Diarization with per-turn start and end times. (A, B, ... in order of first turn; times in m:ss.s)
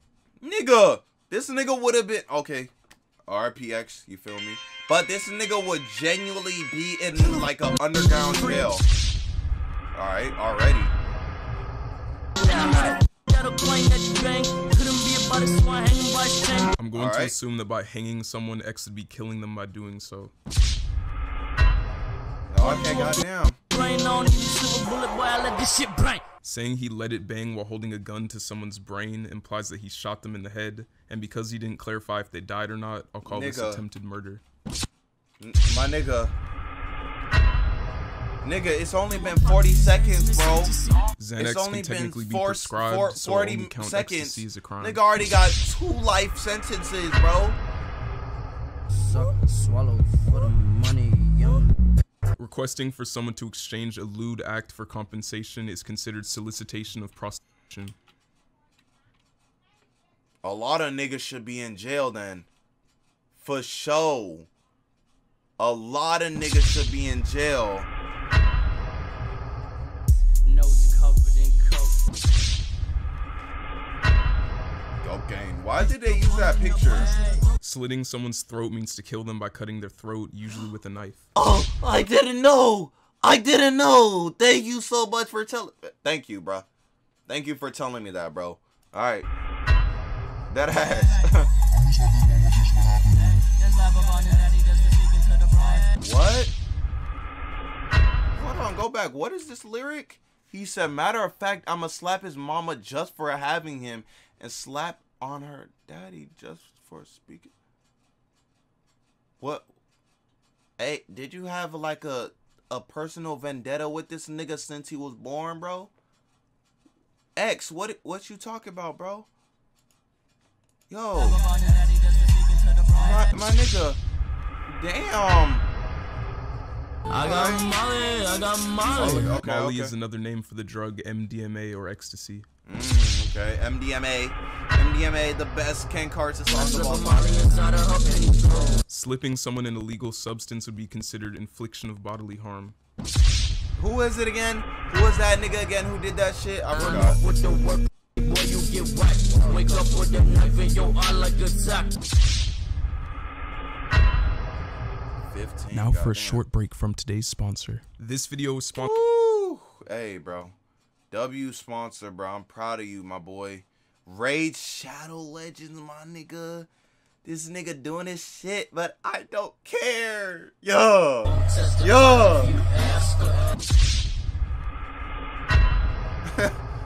0:00.4-0:02.7 A
0:03.3-0:08.9 A
0:08.0-0:08.7 B
0:10.0-0:11.0 A
0:12.4-0:16.7 B
0:16.8-0:20.3 C
0:16.9-0:17.3 A
0:22.5-0:23.6 A
0:22.6-0:26.2 B
0:26.4-0:34.4 C
0:33.2-0:33.8 A
0:35.4-0:36.3 A
0:38.4-0:40.7 A
0:39.1-0:41.1 B
0:41.2-0:45.0 C
0:41.4-0:47.6 A
0:49.0-0:51.8 B
0:52.4-0:58.0 C
1:00.4-1:02.5 A
1:03.4-1:04.5 A
1:05.6-1:07.9 A
1:10.4-1:12.0 B
1:15.0-1:17.1 A
1:16.0-1:17.5 B
1:17.6-1:21.2 C
1:21.4-1:26.7 A
1:27.3-1:29.3 A
1:30.5-1:31.5 A
1:33.0-1:35.9 B
1:36.0-1:36.5 A
1:38.3-1:47.5 A
1:49.4-1:49.7 A
1:50.8-1:55.9 A
1:57.4-1:59.3 A
2:00.9-2:01.4 A
2:01.2-2:03.3 B
2:03.0-2:04.0 A
2:04.7-2:05.7 A
2:07.1-2:09.4 B
2:07.2-2:07.6 A
2:08.9-2:09.9 A
2:09.0-2:12.5 C
2:12.6-2:17.4 A
2:16.5-2:18.8 B
2:18.9-2:22.8 C
2:23.8-2:27.2 A
2:26.8-2:32.0 B
2:35.2-2:36.4 A
2:35.7-2:38.9 C
2:38.8-2:40.6 A
2:41.1-2:46.7 A
2:47.2-2:52.6 A
2:51.3-2:53.5 B
2:56.2-2:56.6 A